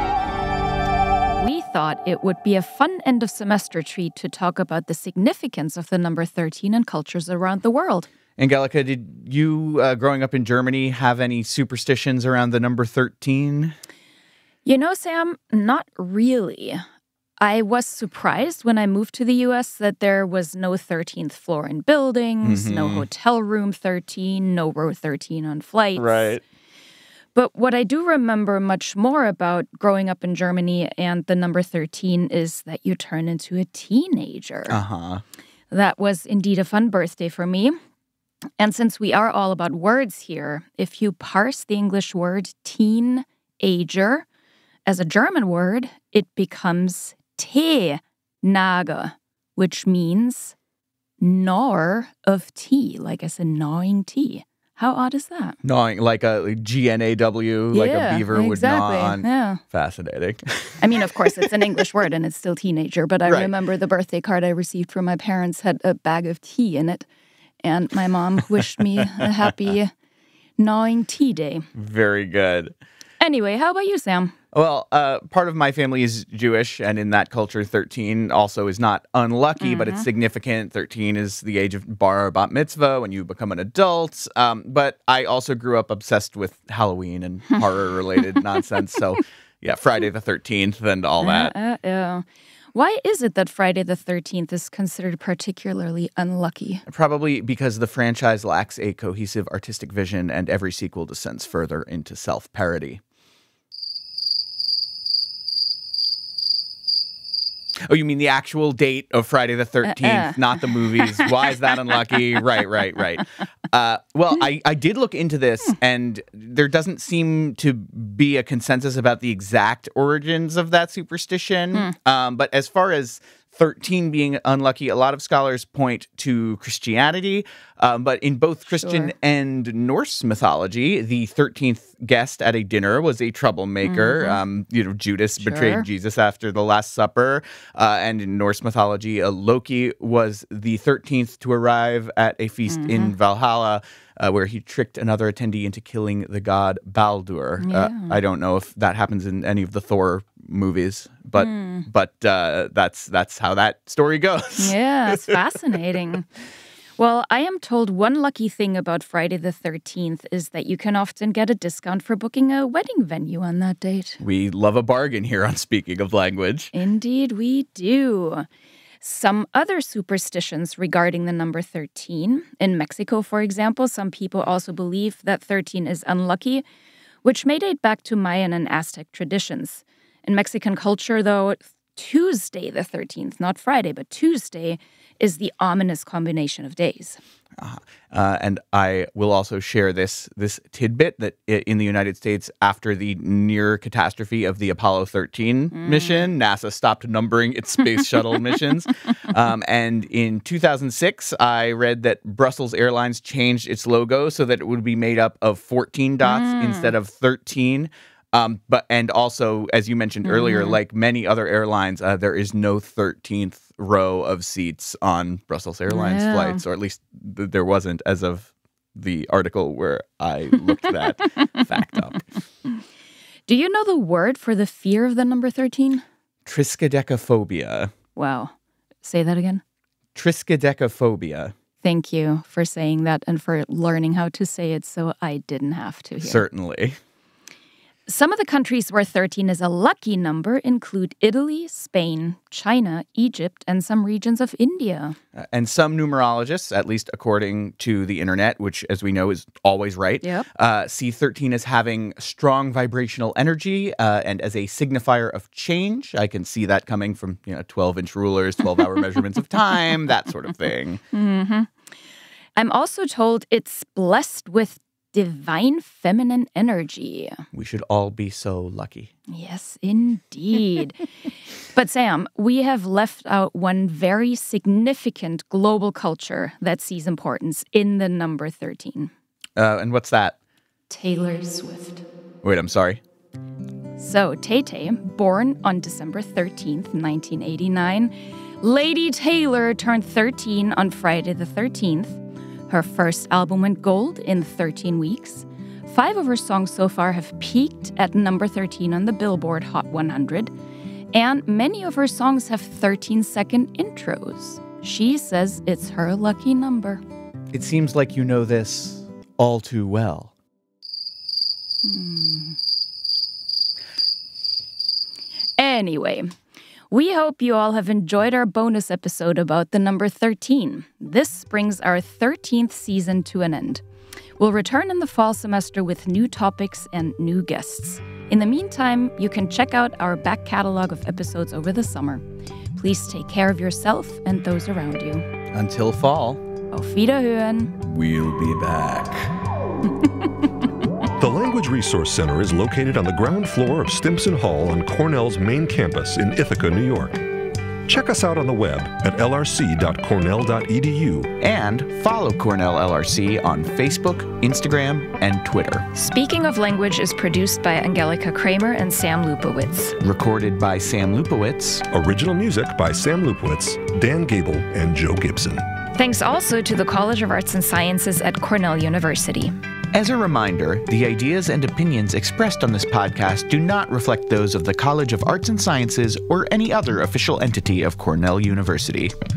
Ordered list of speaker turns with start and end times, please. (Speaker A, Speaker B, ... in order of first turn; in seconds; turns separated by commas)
Speaker A: 1.3-8.1, Speaker B: 8.4-13.7, Speaker A: 14.6-16.8, Speaker A: 17.4-26.3, Speaker B: 22.4-23.1, Speaker B: 25.9-26.4, Speaker A: 27.3-34.8, Speaker B: 34.7-35.2, Speaker A: 35.7-37.8, Speaker A: 38.6-44.2, Speaker A: 44.9-50.5, Speaker A: 51.2-55.5, Speaker B: 55.6-60.8, Speaker A: 57.7-59.6, Speaker A: 60.8-67.0, Speaker B: 63.2-63.5, Speaker A: 67.6-69.9, Speaker A: 70.6-71.6, Speaker B: 71.7-72.7, Speaker A: 73.2-74.3, Speaker B: 74.5-91.5, Speaker A: 79.6-80.0, Speaker A: 91.2-96.8, Speaker B: 96.9-103.0, Speaker B: 107.8-154.7, Speaker A: 109.8-111.3, Speaker A: 128.7-129.1, Speaker A: 133.8-134.4, Speaker A: 135.4-135.9, Speaker A: 142.7-143.1, Speaker A: 147.6-148.2, Speaker A: 151.3-151.8, Speaker A: 154.6-156.3, Speaker A: 157.0-164.2, Speaker B: 164.2-166.7, Speaker A: 166.7-168.5, Speaker A: 169.0-176.6, Speaker A: 177.2-187.2, Speaker B: 187.6-222.2, Speaker A: 195.7-196.3, Speaker A: 206.2-206.9, Speaker A: 210.2-210.8, Speaker A: 215.9-216.6, Speaker A: 223.5-226.0, Speaker B: 226.4-227.9, Speaker A: 228.1-229.6, Speaker B: 230.1-231.5, Speaker A: 231.8-236.4, Speaker B: 236.2-236.9, Speaker A: 238.1-245.2, Speaker B: 245.4-261.0, Speaker A: 261.1-261.7, Speaker A: 262.6-267.4, Speaker B: 267.5-269.1, Speaker A: 269.3-271.0, Speaker A: 271.7-279.1, Speaker B: 279.6-280.4, Speaker A: 280.9-282.0, Speaker B: 282.4-283.0, Speaker A: 284.0-300.5, Speaker A: 301.1-307.0, Speaker B: 307.5-310.3, Speaker A: 311.8-312.6, Speaker A: 315.6-316.3, Speaker A: 316.9-323.8, Speaker A: 324.4-332.2, Speaker A: 332.7-335.2, Speaker B: 335.5-336.4, Speaker A: 336.7-337.7, Speaker B: 337.8-339.3, Speaker C: 341.2-347.2, Speaker C: 347.9-351.3, Speaker B: 351.4-355.9, Speaker A: 355.9-359.9, Speaker B: 360.0-361.8, Speaker C: 361.9-365.6, Speaker A: 365.9-369.5, Speaker B: 369.9-379.1